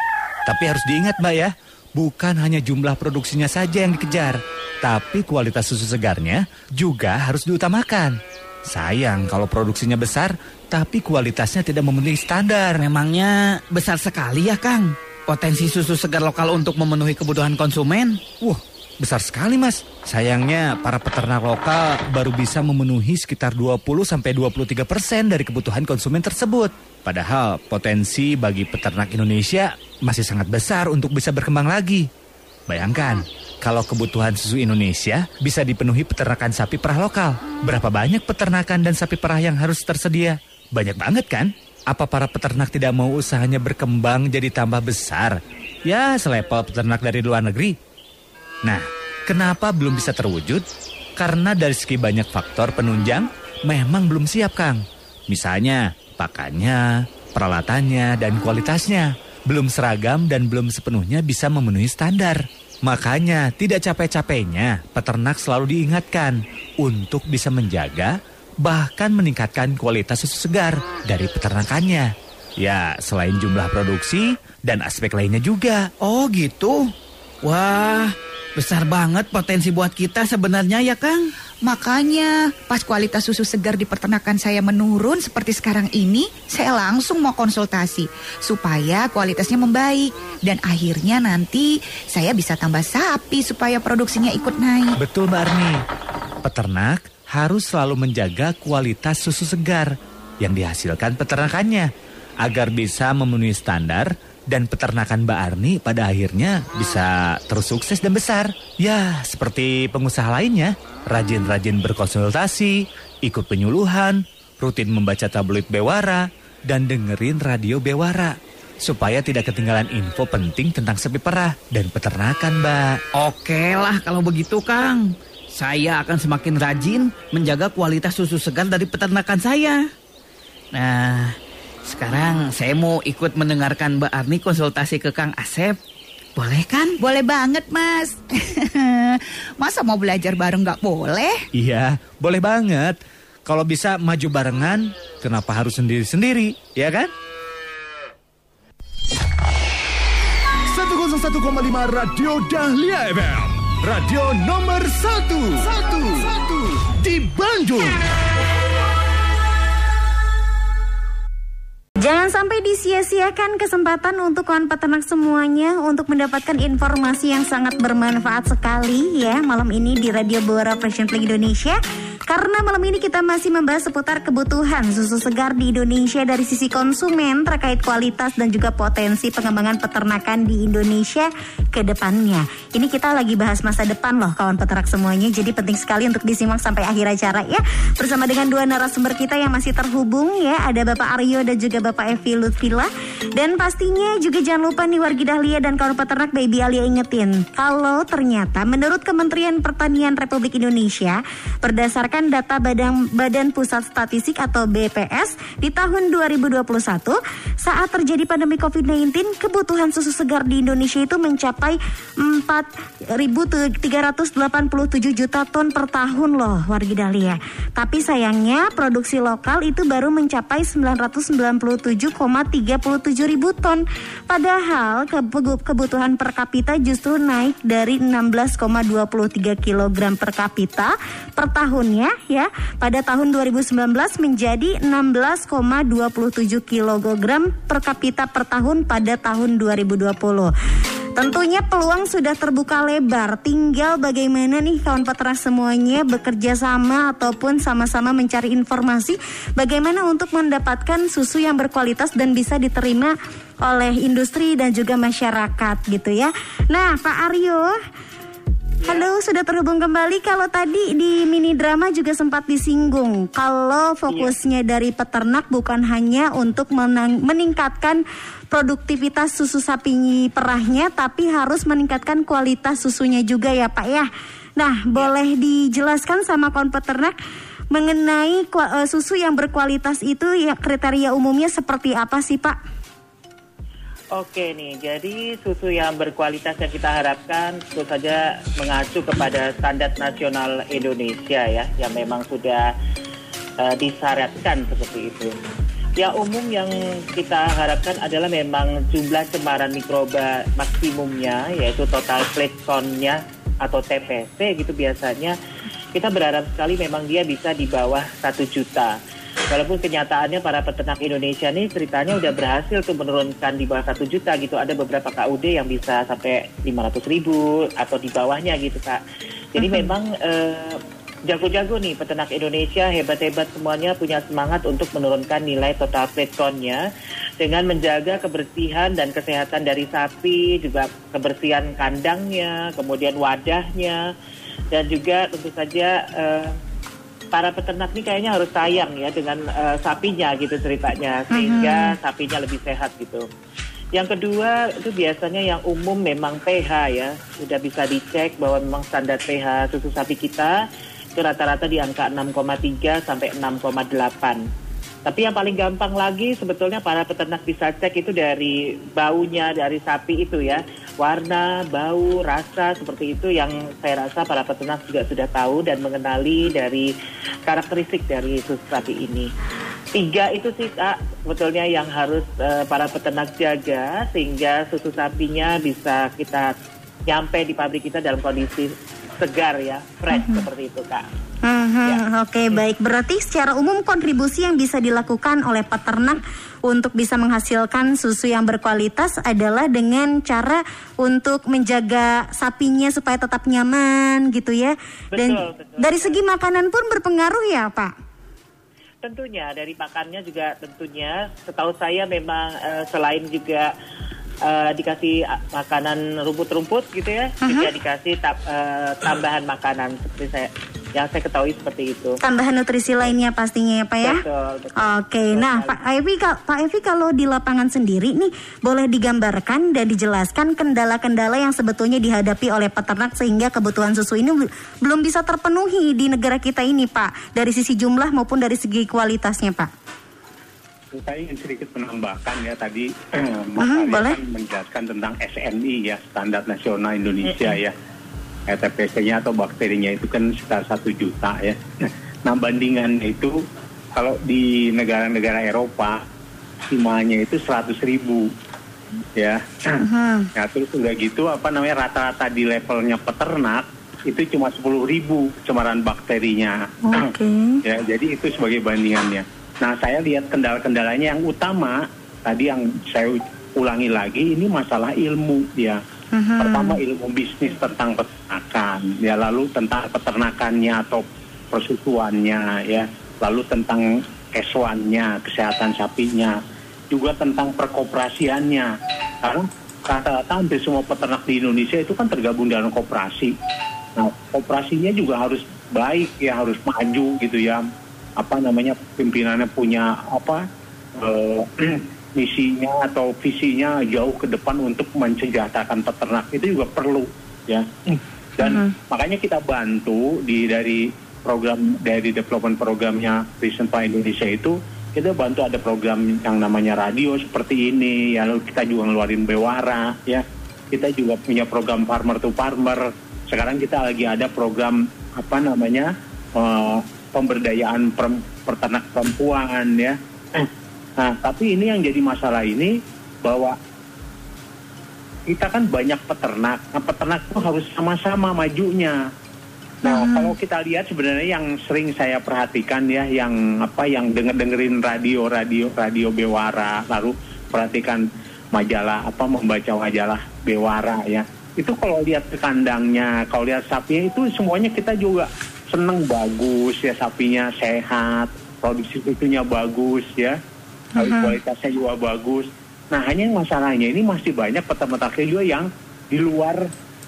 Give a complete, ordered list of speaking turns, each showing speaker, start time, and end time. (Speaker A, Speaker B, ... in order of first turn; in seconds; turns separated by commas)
Speaker A: 0.5-8.2, Speaker A: 8.7-12.8, Speaker B: 12.8-18.2, Speaker A: 18.4-32.1, Speaker A: 32.7-47.8, Speaker A: 48.6-50.7, Speaker A: 51.2-75.9, Speaker B: 76.0-76.9, Speaker B: 77.4-81.2, Speaker C: 81.7-95.0, Speaker A: 95.0-95.8, Speaker A: 96.5-101.9, Speaker A: 102.4-123.0, Speaker B: 123.2-129.8, Speaker B: 130.7-135.8, Speaker B: 136.4-137.0, Speaker C: 137.0-141.4, Speaker A: 141.5-147.1, Speaker D: 150.7-158.0, Speaker E: 162.0-171.8, Speaker E: 172.3-240.5, Speaker E: 241.2-257.7, Speaker E: 258.8-277.2, Speaker F: 264.1-264.3, Speaker E: 277.7-282.6, Speaker F: 284.1-292.7, Speaker F: 293.6-295.4, Speaker F: 296.0-305.4, Speaker F: 305.9-309.0, Speaker F: 309.5-319.0, Speaker F: 319.5-326.8, Speaker E: 319.6-319.9, Speaker F: 327.4-334.1, Speaker F: 334.7-336.6, Speaker F: 337.3-343.3, Speaker E: 341.3-341.9, Speaker F: 343.9-350.6, Speaker F: 351.2-354.4, Speaker F: 355.1-366.9, Speaker F: 367.5-369.3, Speaker F: 369.9-376.5, Speaker F: 377.1-381.1, Speaker E: 380.1-380.4, Speaker E: 381.4-397.9, Speaker F: 395.1-396.2, Speaker F: 399.0-403.7, Speaker F: 404.4-412.2, Speaker E: 407.4-407.7, Speaker E: 412.2-414.2, Speaker F: 414.0-415.8, Speaker E: 414.8-429.7, Speaker G: 430.9-437.7, Speaker E: 433.6-434.2, Speaker G: 438.5-443.4, Speaker G: 444.0-446.0, Speaker G: 446.7-448.3, Speaker G: 449.2-449.8, Speaker E: 449.8-450.3, Speaker G: 450.4-457.1, Speaker E: 456.9-457.6, Speaker G: 457.6-465.8, Speaker E: 466.1-466.8, Speaker G: 466.4-476.4, Speaker G: 476.9-478.7, Speaker G: 479.2-483.4, Speaker G: 484.0-487.6, Speaker G: 488.2-523.6, Speaker E: 498.4-498.8, Speaker G: 525.3-529.0, Speaker E: 529.8-530.4, Speaker G: 529.8-550.4, Speaker G: 551.0-556.7, Speaker E: 551.0-551.4